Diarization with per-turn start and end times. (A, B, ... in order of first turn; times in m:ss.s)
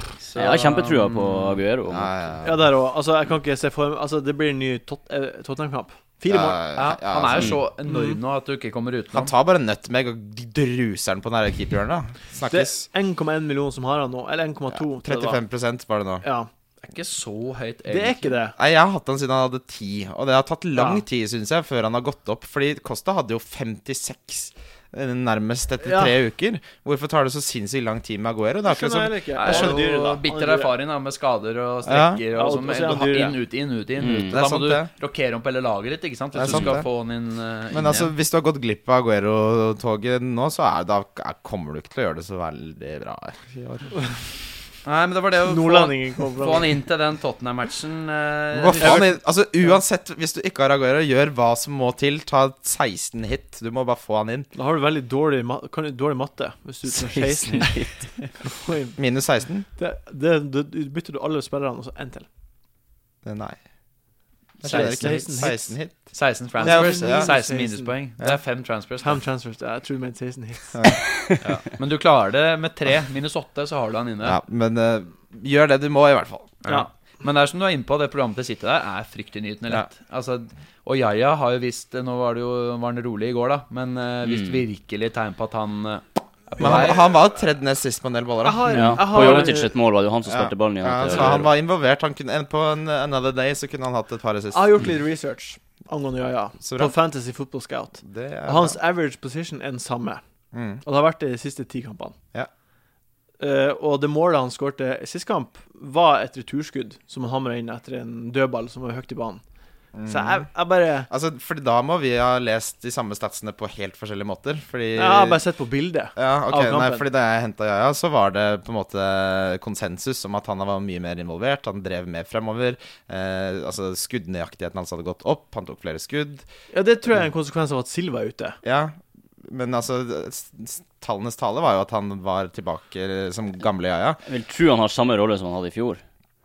0:00.2-0:01.6 A
0:00.3-0:02.2 B
0:01.9-0:02.7 C
0:02.4-0:06.6 D
0:06.2-0:07.6 C
0:06.7-0:09.3 A
0:07.8-0:08.2 D
0:09.1-0:12.8 C
0:12.5-0:15.4 D
0:14.7-0:16.2 C
0:16.2-0:16.5 D
0:16.8-0:18.4 A
0:17.9-0:18.6 D
0:18.6-0:29.8 C
0:20.7-0:21.0 D
0:25.8-0:26.1 D
0:28.6-0:30.7 D
0:29.4-0:38.1 A
0:31.8-0:32.2 C
0:32.3-0:33.4 D
0:34.0-0:34.4 B
0:34.3-0:34.9 C
0:36.3-0:36.9 C
0:37.7-0:44.0 C
0:44.8-0:49.1 A
0:45.4-0:46.7 D
0:48.5-0:54.5 C
0:54.5-0:59.0 D
0:57.0-0:58.2 B
0:59.0-0:59.6 C
0:59.7-1:02.3 D
1:03.2-1:03.6 C
1:04.6-1:07.3 C
1:04.6-1:09.2 A
1:04.6-1:05.7 D
1:06.6-1:07.9 D
1:09.0-1:11.0 D
1:10.7-1:11.0 C
1:11.4-1:14.4 A
1:14.2-1:16.7 C
1:16.6-1:27.0 A
1:24.2-1:24.6 B
1:26.6-1:26.9 D
1:26.6-1:29.4 C
1:28.4-1:29.7 D
1:28.7-1:31.5 B
1:30.2-1:34.7 C
1:31.1-1:31.4 A
1:34.5-1:40.2 D
1:36.6-1:36.9 C
1:38.0-1:38.8 C
1:40.5-1:40.8 C
1:40.8-1:42.1 D
1:43.4-1:49.4 D
1:49.9-1:50.5 C
1:50.0-1:51.1 D
1:51.1-1:55.4 C
1:54.9-1:57.0 D
1:56.1-2:06.4 C
2:06.7-2:08.6 D
2:08.6-2:14.2 C
2:14.2-2:16.0 B